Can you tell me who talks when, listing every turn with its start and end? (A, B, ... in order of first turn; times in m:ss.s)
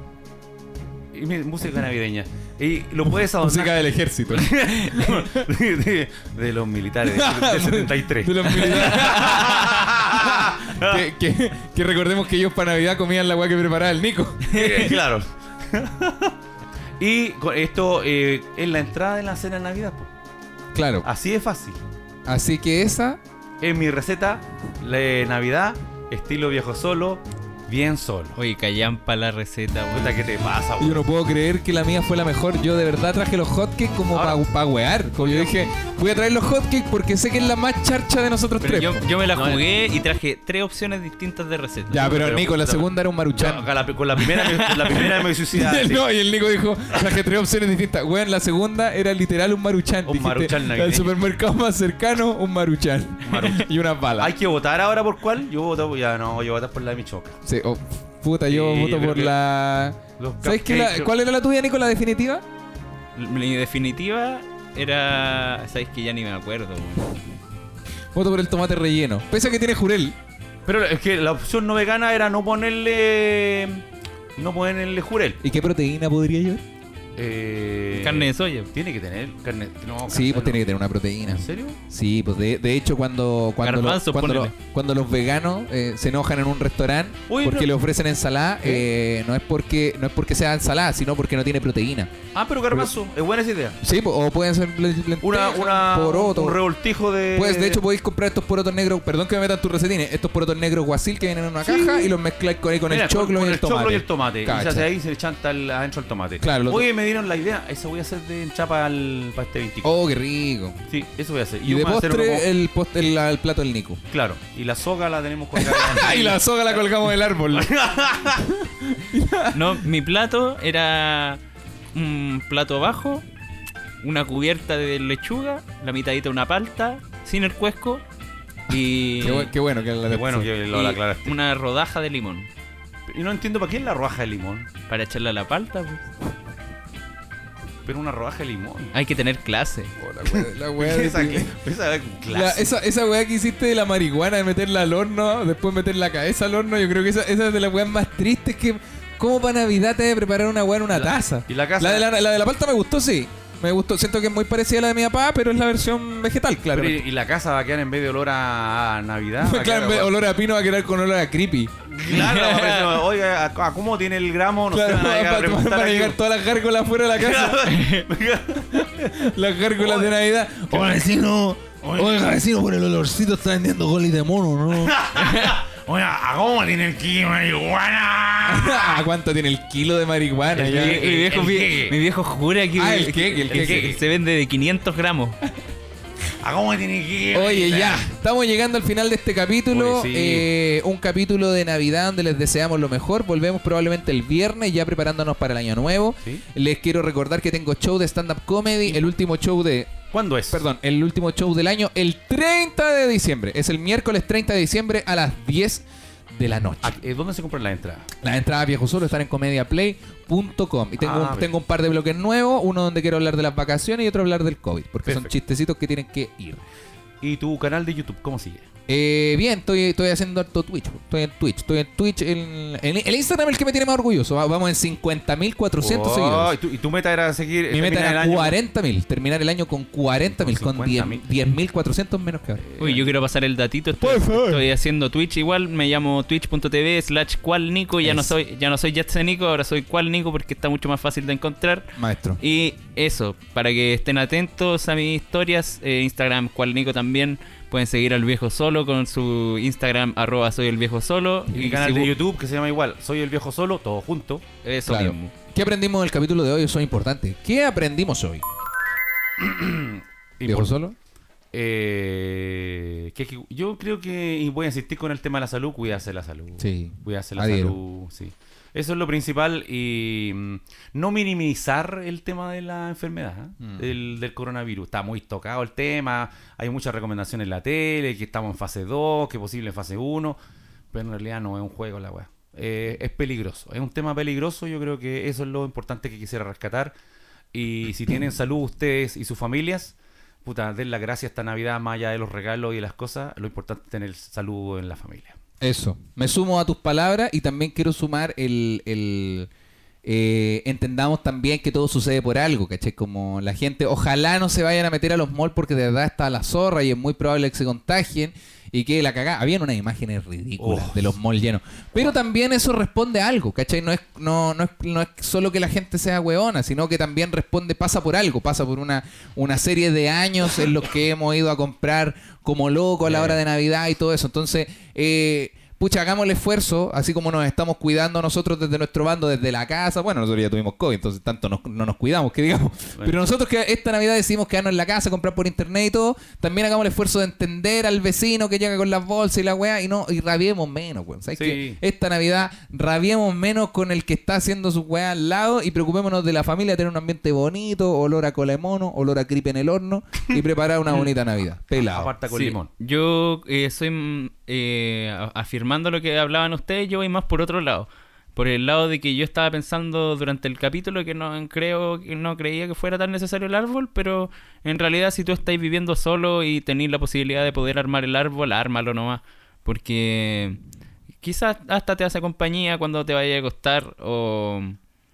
0:01.1-0:11.0 A
0:03.4-0:04.6 B
0:07.1-0:14.6 B
0:08.6-0:09.6 C
0:14.5-0:16.4 A
0:14.5-0:14.8 C
0:17.0-0:20.1 A
0:20.7-0:21.1 B
0:21.0-0:21.8 A
0:22.3-0:23.2 B
0:23.6-0:28.4 A
0:28.4-0:30.3 C
0:29.9-0:31.0 A
0:30.8-0:39.1 B
0:34.1-0:34.4 A
0:35.2-0:35.5 A
0:38.6-0:42.1 C
0:39.3-0:39.6 A
0:41.9-0:43.6 B
0:41.9-0:46.0 A
0:45.0-0:54.3 B
0:50.0-0:51.2 A
0:53.2-0:53.7 A
0:54.2-0:57.4 A
0:57.4-1:02.4 B
0:58.5-0:59.3 A
1:00.2-1:01.1 A
1:03.1-1:07.2 C
1:08.1-1:10.2 B
1:10.6-1:13.8 A
1:14.4-1:15.4 A
1:15.4-1:16.6 B
1:17.2-1:20.6 A
1:17.9-1:18.7 C
1:20.1-1:32.1 B
1:21.2-1:21.8 A
1:23.6-1:24.5 C
1:27.3-1:27.7 A
1:32.3-1:33.8 A
1:33.8-1:36.6 B
1:35.2-1:37.8 A
1:37.3-1:44.9 B
1:41.6-1:42.1 A
1:42.9-1:49.9 A
1:46.4-1:46.9 B
1:49.8-1:50.8 B
1:50.9-1:52.5 A
1:51.6-1:54.0 B
1:54.1-1:58.5 A
1:55.5-1:57.7 B
1:58.4-1:59.8 B
1:59.5-2:01.4 C
2:01.9-2:03.2 C
2:04.0-2:08.0 C
2:08.7-2:09.5 C
2:09.2-2:10.5 B
2:10.1-2:11.3 A
2:10.7-2:12.5 C
2:13.1-2:14.7 A
2:14.9-2:16.1 C
2:17.8-2:18.9 A
2:18.9-2:19.9 C
2:20.0-2:21.6 B
2:20.1-2:22.7 A
2:22.3-2:37.0 B
2:30.9-2:32.1 A
2:36.7-2:40.1 A
2:39.4-2:41.7 B
2:41.9-2:46.2 A
2:42.1-2:43.0 C
2:44.7-2:47.8 B
2:47.1-2:49.1 A
2:47.6-2:48.1 C
2:48.7-2:55.0 B
2:49.8-2:50.1 A
2:50.7-2:51.0 A
2:51.8-2:52.2 A
2:54.8-2:59.0 A
2:55.2-2:55.6 C
2:58.4-3:01.0 B
3:00.5-3:02.0 A
3:00.6-3:05.4 C
3:02.7-3:04.0 B
3:03.5-3:04.0 A
3:06.4-3:08.1 A
3:07.3-3:20.0 B
3:09.7-3:10.5 A
3:20.1-3:20.7 A
3:20.5-3:27.0 B
3:26.8-3:28.1 A
3:28.2-3:36.6 B
3:31.0-3:31.5 A
3:35.0-3:35.3 A
3:37.2-3:38.7 A
3:38.9-3:46.6 B
3:45.8-3:48.6 A
3:47.7-3:52.6 B
3:50.4-3:51.2 A
3:52.6-3:53.1 A
3:52.8-4:12.1 C
3:54.0-3:54.6 B
3:58.0-3:58.3 B
4:02.0-4:02.4 B
4:11.5-4:14.4 A
4:14.6-4:15.3 C
4:14.8-4:18.4 B
4:19.4-4:20.8 A
4:20.4-4:21.0 B
4:21.5-4:40.4 A
4:26.6-4:27.8 B
4:33.6-4:33.8 B
4:40.9-4:46.9 A
4:47.5-4:55.4 A
4:55.6-4:59.5 B
5:00.0-5:52.1 B
5:10.6-5:11.1 A
5:23.0-5:23.4 A
5:41.4-5:41.8 A
5:51.7-5:52.7 A
5:52.3-6:10.6 C
6:11.2-6:14.8 C